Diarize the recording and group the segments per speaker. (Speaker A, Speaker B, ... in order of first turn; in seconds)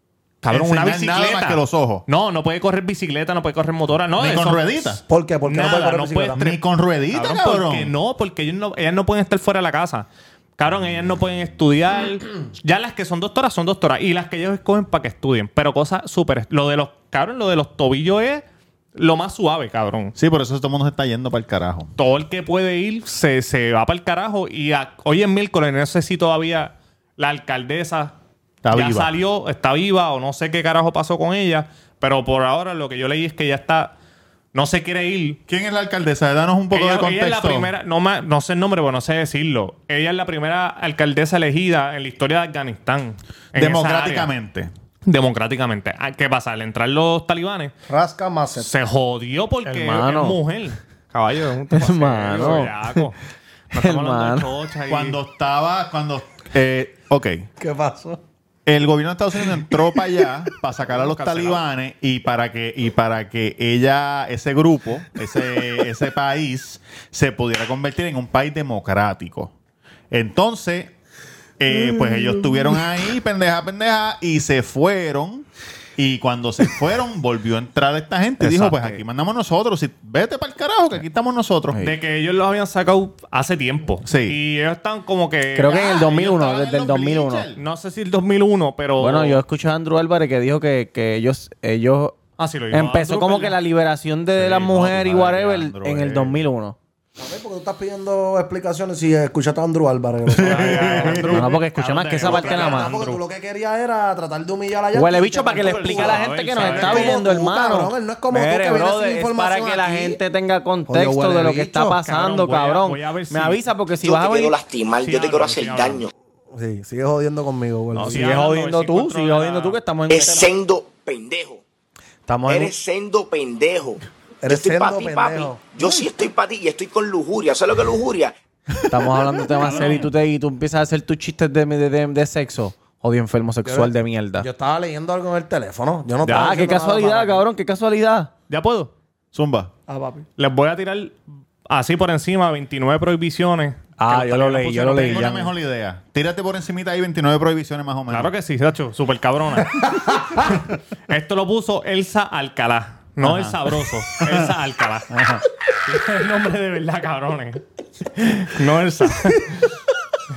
Speaker A: 0.4-6.6, 7.1-10.1, 10.6-18.4, 18.9-20.1, 22.0-28.1, 28.7-33.9, 34.5-35.4, 36.7-44.3, 45.1-47.7, 48.6-53.1, 53.7-55.2, 60.9-61.6, 78.5-78.9, 81.8-85.9, 87.5-89.4, 92.4-93.6, 100.4-103.2, 105.6-107.2, 112.0-113.6, 115.0-116.0, 118.1-119.8, 129.6-130.1, 138.5-138.9, 140.4-145.2, 148.1-150.5, 151.1-155.1, 155.8-159.7
Speaker B: 0.5-2.0, 4.2-5.0, 6.3-7.9, 20.1-21.9, 28.6-29.1, 35.5-37.7, 43.5-44.7, 54.9-57.5, 58.6-69.5, 70.1-70.9, 71.6-81.8, 84.0-84.4, 85.7-87.6, 94.3-96.4, 100.3-101.5, 139.3-139.7, 145.0-148.3, 153.2-153.6, 154.2-154.5, 155.1-155.4
Speaker C: 5.1-6.4, 47.9-48.7, 57.6-58.2, 97.2-101.2, 102.2-110.2, 110.9-112.0, 116.5-118.3, 124.4-125.6, 133.6-137.5, 139.9-140.2
Speaker D: 49.6-50.4, 51.7-53.1, 53.7-54.5, 78.4-78.8, 85.6-87.5, 89.0-92.2, 92.7-96.8, 101.2-102.9, 104.9-114.6, 117.9-120.5, 122.3-122.7, 128.9-134.5, 136.2-138.3, 144.0-145.5
Speaker E: 114.0-116.1, 120.1-121.6, 122.5-128.3